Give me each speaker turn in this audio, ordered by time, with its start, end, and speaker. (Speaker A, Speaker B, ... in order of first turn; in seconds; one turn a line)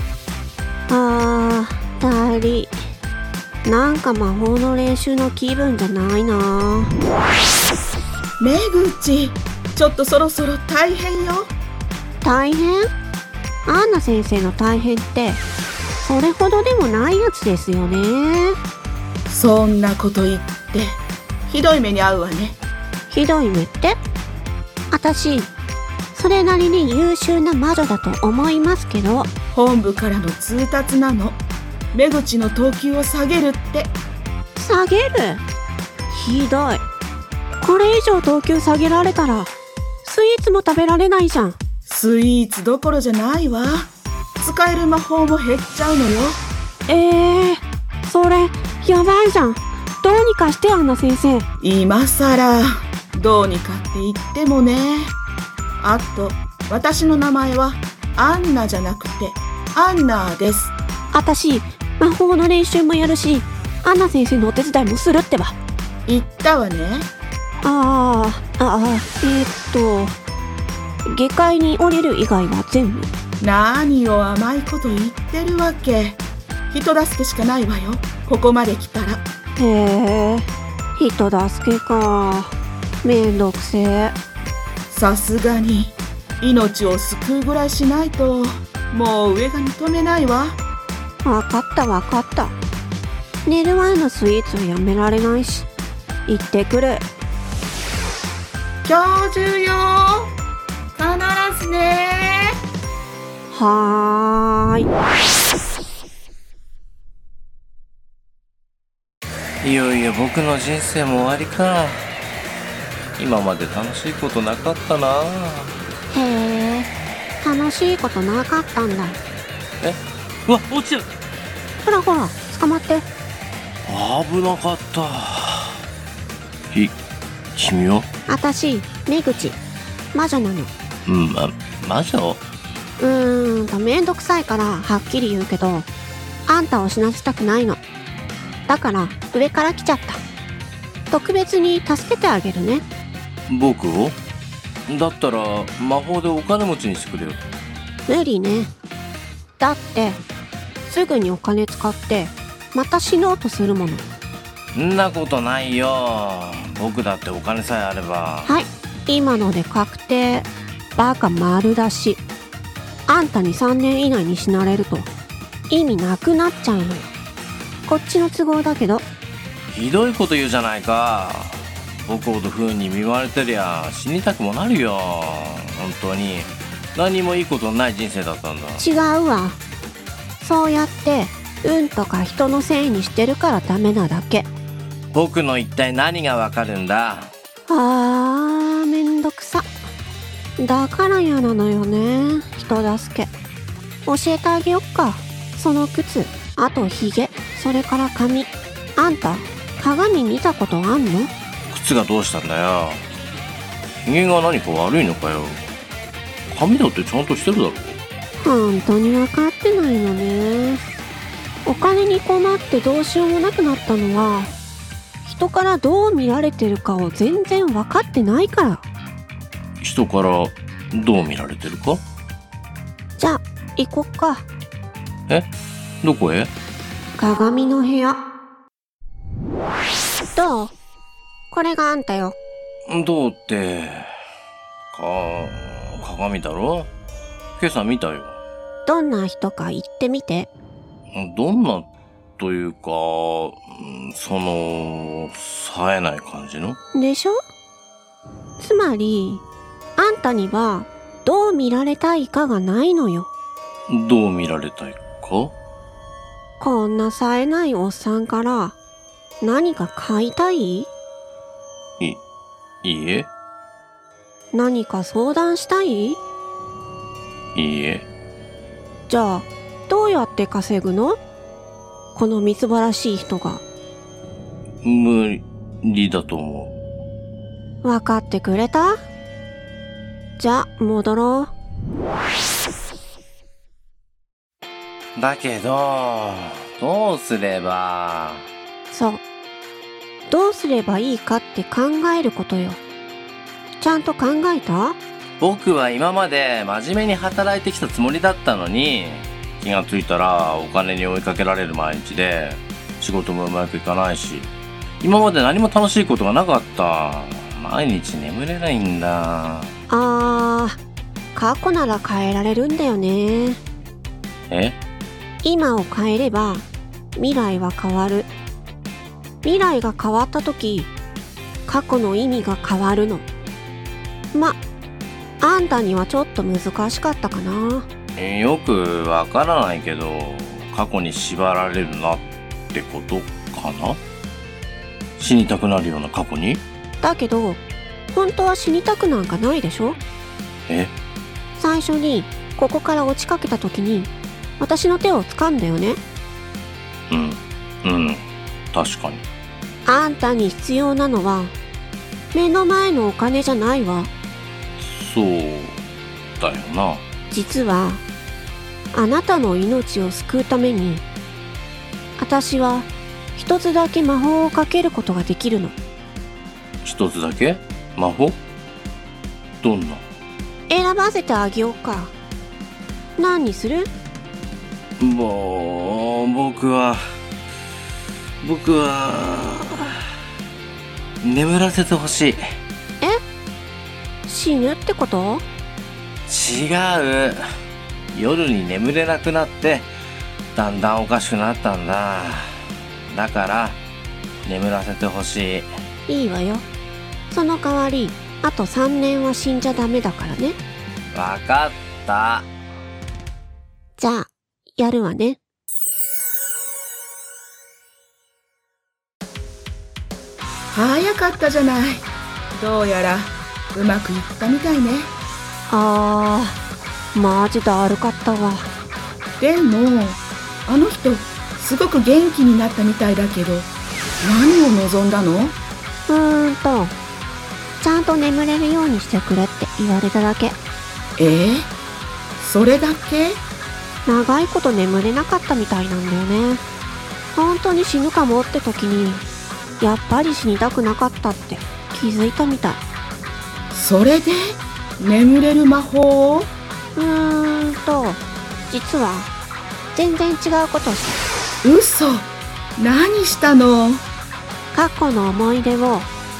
Speaker A: 0.9-2.8
Speaker A: 3.6-6.9
Speaker B: 8.4-11.5
Speaker A: 12.2-12.9
Speaker A: 13.7-15.4
Speaker A: 16.0-18.6
Speaker B: 19.3-22.6
Speaker A: 23.1-24.0
Speaker A: 24.9-25.5
Speaker A: 26.1-29.3
Speaker B: 29.5-34.0
Speaker A: 34.5-35.4
Speaker A: 36.1-36.8
Speaker A: 37.6-39.5
Speaker A: 40.0-41.6
Speaker B: 41.9-46.4
Speaker A: 46.9-51.5
Speaker B: 51.6-55.1
Speaker B: 55.8-60.7
Speaker A: 61.1-65.6
Speaker B: 66.1-67.1
Speaker A: 67.6-70.2
Speaker A: 71.0-73.1
Speaker B: 73.4-79.2
Speaker A: 79.6-84.2
Speaker B: 84.9-90.6
Speaker A: 91.2-92.5
Speaker A: 93.4-95.7
Speaker A: 96.2-97.1
Speaker B: 98.8-100.3
Speaker B: 100.9-102.5
Speaker A: 103.5-104.9
Speaker C: 109.6-112.1
Speaker C: 113.2-115.8
Speaker A: 116.1-119.2
Speaker C: 119.8-121.1
Speaker A: 121.8-123.1
Speaker C: 123.8-125.8
Speaker C: 127.6-128.1
Speaker A: 128.3-129.6
Speaker A: 130.1-130.7
Speaker C: 131.1-132.4
Speaker A: 133.0-135.9
Speaker A: 136.5-137.8
Speaker A: 138.7-140.2
Speaker A: 141.1-142.9
Speaker C: 143.5-144.2
Speaker C: 144.9-147.4
Speaker A: 148.1-148.7
Speaker A: 149.6-150.2
Speaker A: 150.9-154.1
Speaker C: 154.7-158.5
Speaker A: 158.5-162.2
Speaker A: 163.1-165.1
Speaker A: 165.7-167.1
Speaker A: 167.9-169.1
Speaker C: 169.7-178.8
Speaker A: 178.8-179.6
Speaker A: 180.4-184.5
Speaker C: 185.1-187.3
Speaker A: 187.7-189.7
Speaker A: 190.6-193.3
Speaker A: 194.1-201.3
Speaker C: 201.7-203.1
Speaker C: 204.1-205.6
Speaker C: 206.5-208.0
Speaker A: 208.4-210.8
Speaker A: 211.7-214.5
Speaker A: 215.2-218.8
Speaker C: 219.8-222.0
Speaker A: 223.2-224.5
Speaker C: 226.0-226.5
Speaker A: 227.2-228.2
Speaker A: 230.3-230.7
Speaker A: 231.5-232.4
Speaker C: 232.9-234.1
Speaker C: 234.9-236.9
Speaker C: 237.6-238.4
Speaker A: 238.9-240.5
Speaker C: 241.1-241.9
Speaker C: 242.4-246.8
Speaker A: 246.9-247.4
Speaker A: 248.6-249.4
Speaker A: 250.0-253.3
Speaker C: 253.9-255.5
Speaker A: 256.6-258.8
Speaker A: 259.4-260.9
Speaker C: 262.8-263.3
Speaker A: 264.5-266.2
Speaker C: 267.5-268.1
Speaker A: 269.1-271.2
Speaker A: 272.1-273.6
Speaker C: 274.8-276.7
Speaker A: 277.8-279.0
Speaker A: 280.4-281.5
Speaker C: 285.1-288.5
Speaker A: 288.9-289.2
Speaker A: 290.3-292.8
Speaker A: 293.8-295.0
Speaker C: 295.4-309.7
Speaker A: 309.9-310.8
Speaker A: 311.3-313.6
Speaker C: 314.5-314.8
Speaker A: 315.4-318.3
Speaker A: 319.4-320.9
Speaker A: 321.7-323.3
Speaker A: 324.3-324.6
Speaker A: 325.4-327.9
Speaker C: 328.1-334.0
Speaker C: 335.2-336.6
Speaker A: 337.0-340.0
Speaker C: 340.7-340.9
Speaker A: 341.6-346.0
Speaker C: 347.1-349.2
Speaker A: 349.8-351.5
Speaker A: 352.3-354.1
Speaker C: 354.8-355.8
Speaker C: 356.4-357.0
Speaker A: 357.3-358.0
Speaker A: 358.9-361.0
Speaker A: 362.2-365.8
Speaker C: 366.8-368.4
Speaker C: 369.6-370.0
Speaker A: 370.7-372.1
Speaker A: 373.2-373.9
Speaker C: 375.0-377.0
Speaker C: 378.4-380.0
Speaker C: 381.2-382.4
Speaker A: 384.2-385.4
Speaker C: 386.3-387.4
Speaker C: 388.1-389.9
Speaker C: 390.5-392.5
Speaker C: 393.1-393.8
Speaker C: 394.4-395.7
Speaker A: 396.1-396.6
Speaker A: 397.3-400.6
Speaker C: 401.1-402.5
Speaker A: 404.0-405.4
Speaker B: 410.7-412.1
Speaker B: 412.6-415.1
Speaker A: 415.7-416.6
Speaker A: 417.1-418.7
Speaker B: 419.4-423.7
Speaker B: 424.2-425.6
Speaker A: 426.1-426.9
Speaker A: 427.8-430.6
Speaker B: 431.2-431.7
Speaker B: 432.4-433.4
Speaker A: 434.0-436.6
Speaker A: 437.3-439.2
Speaker A: 439.8-442.8
Speaker B: 443.7-446.5
Speaker A: 446.9-449.3
Speaker A: 449.9-451.2
Speaker B: 451.6-454.0
Speaker A: 454.7-456.1